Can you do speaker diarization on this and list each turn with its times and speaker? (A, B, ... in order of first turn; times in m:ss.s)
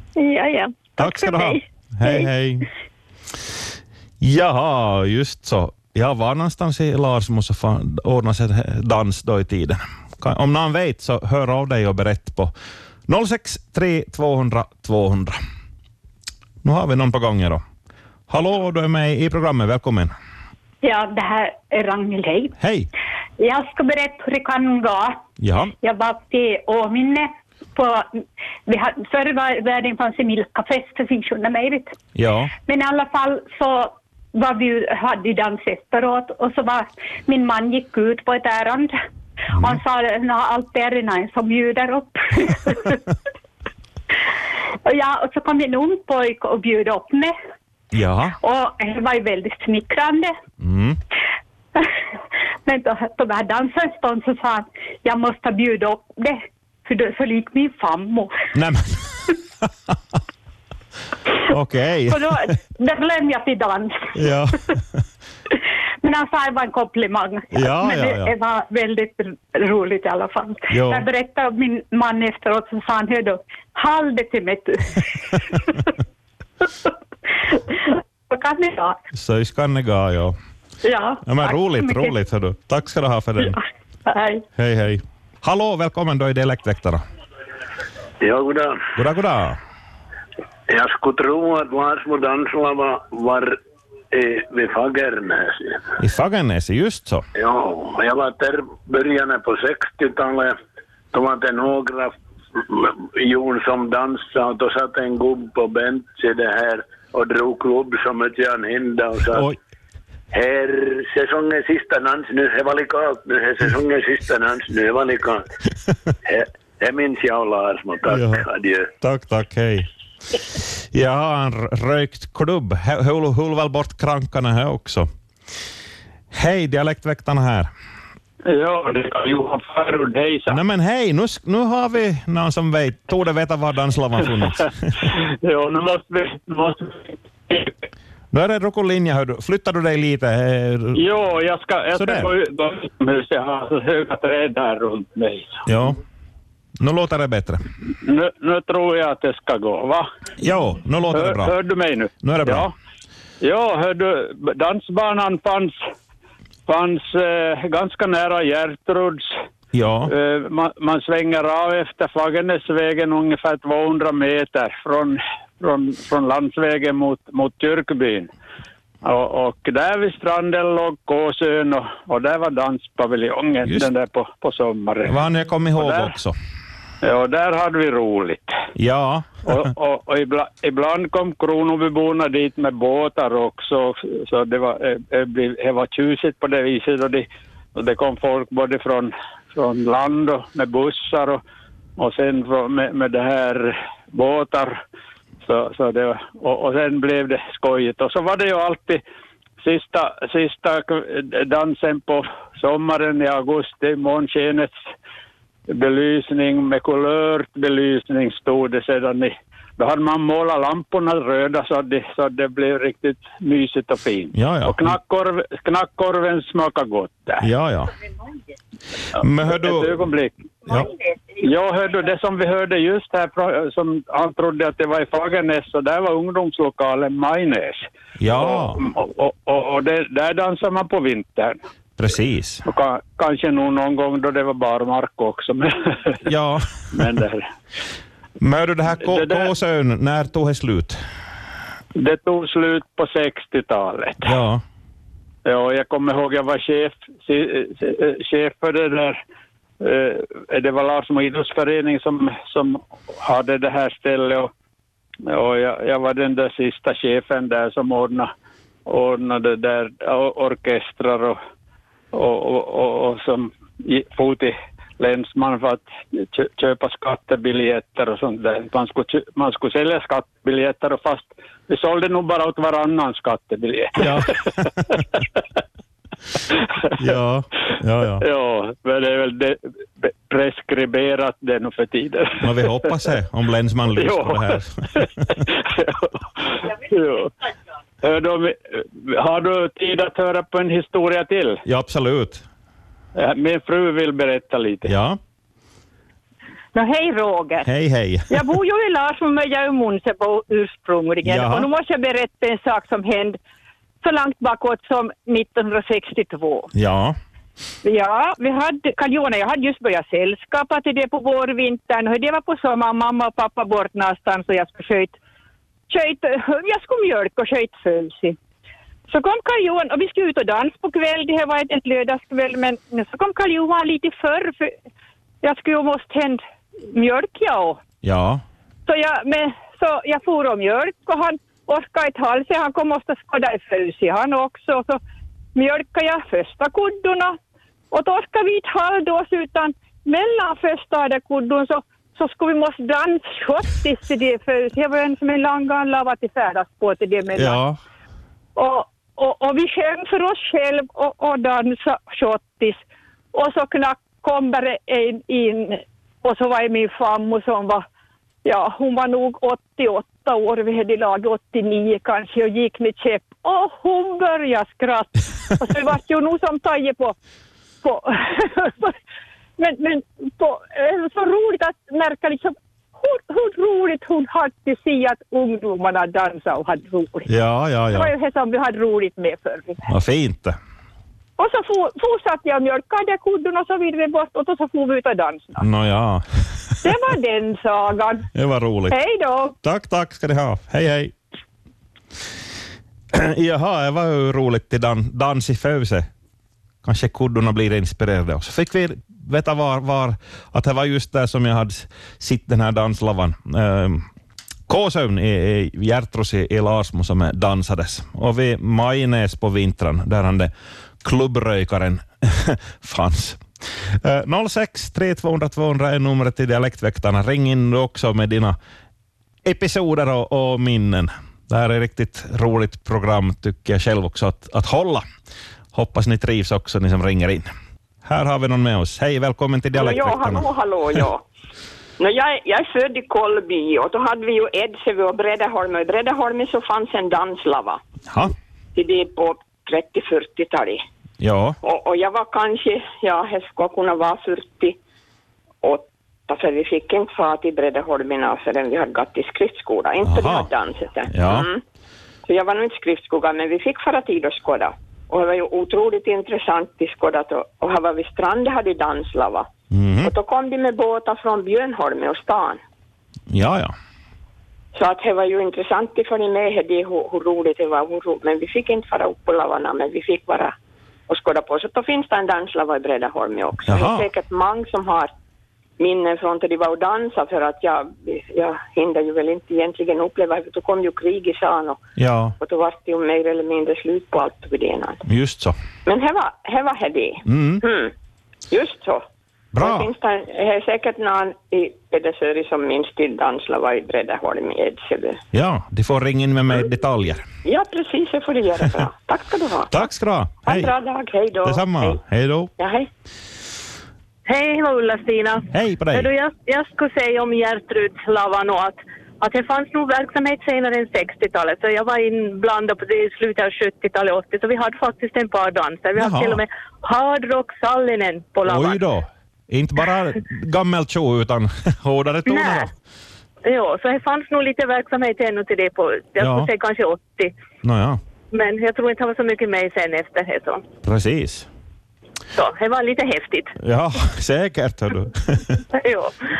0:00.2-0:02.3 A
0:01.0-0:02.7 B
0:04.2-0:12.5 B
0:13.1-0:15.4 B
0:16.6-0:17.6 B
0:18.3-0:20.1 B
0:20.8-0:22.6 C
0:22.6-0:22.9 B
0:23.4-0:25.2 C
0:25.4-0:25.7 B
0:25.8-0:32.0 C
0:32.1-0:32.5 B
0:32.6-0:38.9 C
0:39.5-0:43.0 C
0:44.8-0:47.3 C
0:47.9-0:48.3 B
0:48.4-0:50.3 C
0:50.6-0:51.0 B
0:52.6-0:58.4 C
0:58.5-0:59.2 B
1:01.4-1:02.3 B
1:02.1-1:04.3 C
1:04.1-1:05.0 B
1:06.0-1:15.9 C
1:07.5-1:08.3 B
1:10.7-1:11.0 B
1:16.6-1:16.9 C
1:17.5-1:19.0 C
1:19.1-1:20.3 B
1:20.8-1:22.2 C
1:21.2-1:23.6 B
1:23.4-1:24.4 C
1:24.6-1:27.0 B
1:28.2-1:28.9 D
1:29.0-1:29.6 B
1:30.7-1:33.6 D
1:34.1-1:35.8 D
1:36.0-1:37.3 B
1:37.3-1:40.6 D
1:41.1-1:49.5 D
1:49.3-1:49.6 B
1:50.3-1:55.4 D
1:56.2-1:58.9 D
1:58.1-1:58.5 B
1:59.0-1:59.9 B
2:00.6-2:05.1 B
2:06.3-2:07.7 B
2:08.4-2:10.6 E
2:10.5-2:15.1 B
2:15.0-2:17.7 E
2:18.3-2:21.0 B
2:20.9-2:25.6 E
2:21.9-2:22.3 B
2:25.6-2:26.0 B
2:26.8-2:27.6 B
2:28.0-2:30.0 E
2:30.4-2:31.5 B
2:31.1-2:32.7 E
2:32.2-2:32.7 B
2:33.4-2:35.8 E
2:36.7-2:39.4 E
2:39.7-2:40.1 B
2:40.1-2:48.3 E
2:49.0-2:55.2 E
2:53.6-2:53.9 B
2:55.0-2:56.4 B
2:55.8-2:56.1 E
2:57.0-2:58.6 E
2:58.8-2:59.6 B
2:59.4-3:11.4 E
3:12.0-3:14.8 E
3:15.4-3:19.0 E
3:19.6-3:24.8 E
3:25.7-3:37.4 E
3:34.3-3:35.0 B
3:37.4-3:37.9 B
3:39.1-3:40.1 B
3:39.4-3:40.8 E
3:40.6-3:40.9 B
3:41.4-3:51.6 E
3:48.2-3:48.8 B
3:52.0-3:52.6 B
3:52.6-3:56.2 E
3:56.2-3:57.0 B
3:56.9-3:57.5 E
3:58.4-4:01.0 B
3:59.0-3:59.5 E
4:01.9-4:04.3 E
4:04.2-4:04.6 B
4:05.4-4:09.2 E
4:09.8-4:14.5 E
4:15.2-4:18.3 E
4:18.8-4:21.4 E
4:22.1-4:34.5 E
4:34.0-4:35.0 B
4:37.0-4:38.2 B
4:38.1-4:43.0 E
4:42.4-4:45.4 B
4:43.9-4:47.3 E
4:48.0-4:51.6 E
4:51.6-4:52.4 B
4:53.1-4:54.9 E
4:54.8-4:55.2 B
4:56.7-4:57.7 F
4:57.6-4:58.4 B
4:58.3-5:03.4 F
5:01.2-5:01.7 B
5:04.0-5:06.7 F
5:06.7-5:07.2 B
5:07.8-5:15.2 F
5:15.9-5:18.4 F
5:19.1-5:24.8 F
5:25.4-5:27.8 F
5:28.0-5:28.4 B
5:28.8-5:35.0 F
5:35.5-5:37.4 F
5:37.9-5:47.6 F
5:47.3-5:47.8 B
5:48.6-5:52.8 F
5:53.3-5:57.8 F
5:58.4-6:07.1 F
6:07.8-6:09.0 F
6:09.6-6:17.3 F
6:17.3-6:18.1 B
6:17.9-6:19.8 F
6:19.9-6:20.6 B
6:21.4-6:25.6 F
6:25.6-6:26.8 B
6:26.8-6:28.3 F
6:28.3-6:29.0 B
6:28.9-6:29.5 F
6:29.6-6:31.1 B
6:33.1-6:36.1 B
6:36.8-6:44.1 B
6:44.7-6:50.5 B
6:51.0-6:58.6 B
6:59.4-7:05.0 B
7:05.7-7:07.5 B
7:08.0-7:10.5 B
7:09.7-7:11.2 G
7:12.0-7:17.8 G
7:18.1-7:18.3 B
7:18.7-7:20.8 G
7:21.2-7:21.6 B
7:21.6-7:24.8 G
7:25.6-7:31.6 G
7:30.0-7:30.5 B
7:31.1-7:31.5 B
7:32.2-7:39.5 G
7:39.7-7:40.1 B
7:40.0-7:42.6 G
7:43.3-7:43.7 B
7:44.7-7:50.5 G
7:51.1-7:55.1 G
7:53.6-7:54.0 B
7:55.8-8:01.8 G
8:02.0-8:02.3 B
8:02.4-8:05.0 G
8:05.0-8:05.6 B
8:05.8-8:07.9 G
8:07.2-8:07.6 B
8:08.5-8:09.0 G
8:09.5-8:09.9 B
8:09.6-8:15.2 G
8:15.3-8:17.2 B
8:17.4-8:19.9 G
8:19.7-8:20.7 B
8:20.4-8:22.0 G
8:21.4-8:22.5 B
8:22.6-8:22.9 G
8:24.3-8:38.8 H
8:25.5-8:26.1 B
8:36.0-8:36.4 B
8:38.4-8:42.7 B
8:42.3-8:42.7 H
8:43.4-8:47.3 H
8:46.2-8:46.5 B
8:47.6-8:48.0 B
8:48.3-8:50.6 H
8:50.8-8:51.5 B
8:52.3-8:53.5 H
8:53.6-8:55.6 B
8:55.8-8:56.1 H